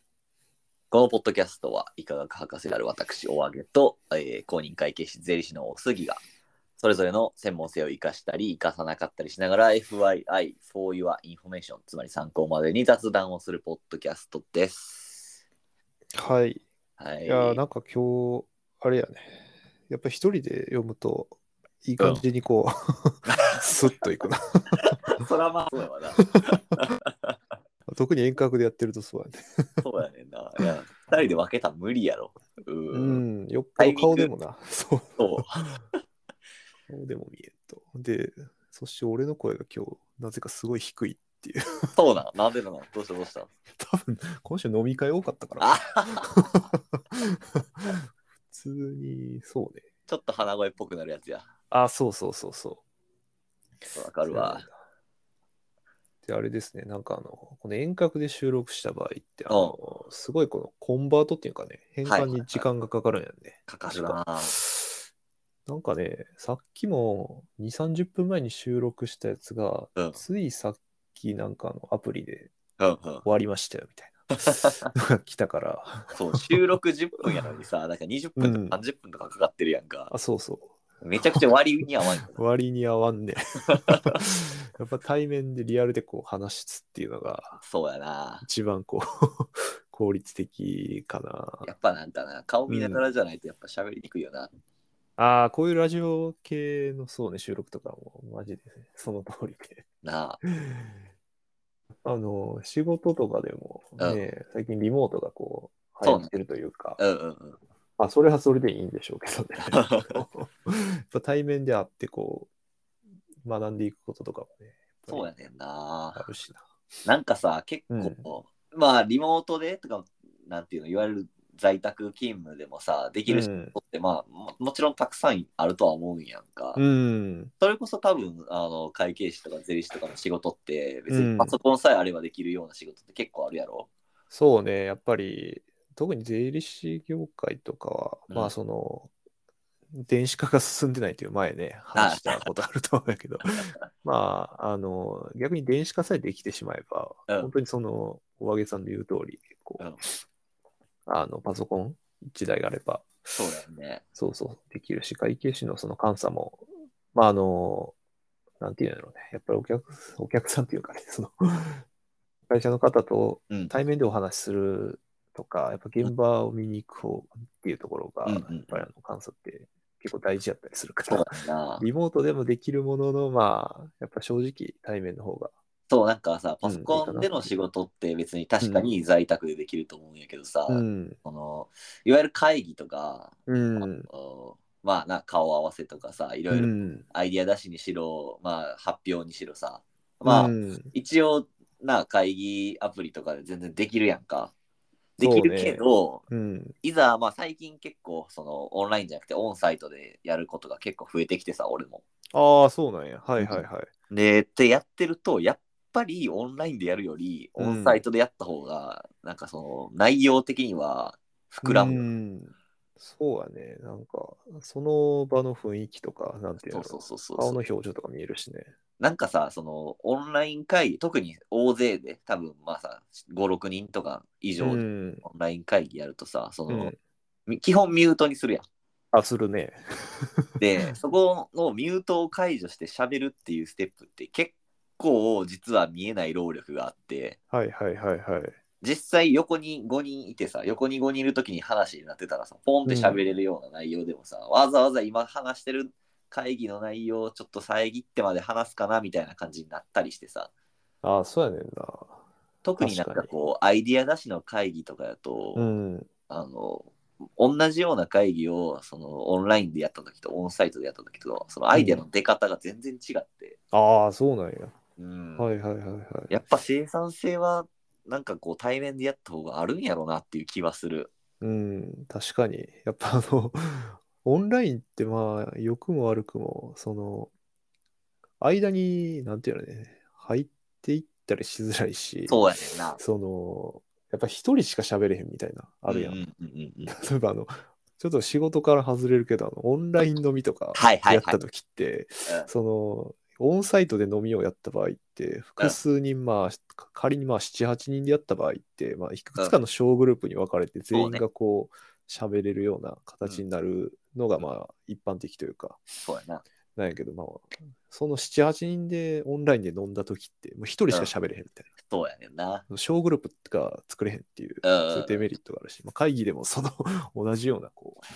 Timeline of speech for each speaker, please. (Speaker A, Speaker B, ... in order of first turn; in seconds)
Speaker A: 0.9-6.2, 6.8-15.4, 17.0-17.6, 23.3-23.6, 25.2-27.3, 29.8-33.2, 33.8-34.3, 35.2-35.7, 42.0-43.5, 45.6-46.7, 50.1-51.4, 53.9-54.7, 59.5-59.8, 62.0-62.7, 63.7-64.6, 72.8-73.2, 74.4-74.9, 76.1-80.1, 81.0-82.4, 83.7-84.2, 87.6-88.5, 91.6-94.5, 100.0-100.4, 106.0-106.3, 107.0-107.6, 109.6-110.2, 115.1-116.3, 117.0-126.8, 127.6-133.9, 141.9-142.4, 153.3-154.0, 168.2-168.8, 171.1-171.8, 175.9-194.5, 195.2-196.2, 196.8-202.0, 203.4-212.1, 216.6-217.6, 219.0-226.9, 227.5-228.6, 230.6-237.4, 238.8-250.5, 252.6-255.7, 256.3-263.6, 265.0-265.5, 266.3-271.1, 282.3-283.0, 285.9-286.9, 290.7-291.4, 300.9-301.2, 306.0-306.4, 311.9-312.6, 314.6-315.3
Speaker B: 16.1-16.6, 17.2-25.2, 27.9-29.8, 32.9-35.7, 36.9-41.9, 43.7-47.9, 48.5-49.8, 51.7-52.8, 54.2-54.8, 56.2-65.0, 65.7-72.5, 73.2-76.6, 78.4-78.8, 80.1-80.7, 82.2-87.6, 88.4-91.7, 92.7-93.0, 95.2-99.8, 100.5-101.0, 102.0-107.0, 108.0-112.5, 113.4-115.3, 116.2-116.7, 117.9-118.3, 123.3-123.8, 126.8-127.5, 131.1-131.6, 134.3-139.1, 139.9-149.9, 151.1-153.2, 154.2-157.9, 158.6-161.8, 162.5-171.3, 171.8-175.5, 176.6-177.5, 178.6-178.9, 180.7-181.2, 183.5-184.1, 186.5-187.0, 190.2-190.9, 195.2-196.7, 202.3-203.9, 207.6-208.0, 211.6-218.7, 224.6-225.2, 226.7-227.0, 229.1-230.5, 237.5-238.6, 242.8-243.2, 251.0-252.2, 252.8-253.3, 255.5-256.1, 261.7-262.0, 263.7-264.7, 265.4-266.4, 271.4-277.3, 278.4-286.2, 286.9-305.8, 306.8-311.7, 312.7-318.0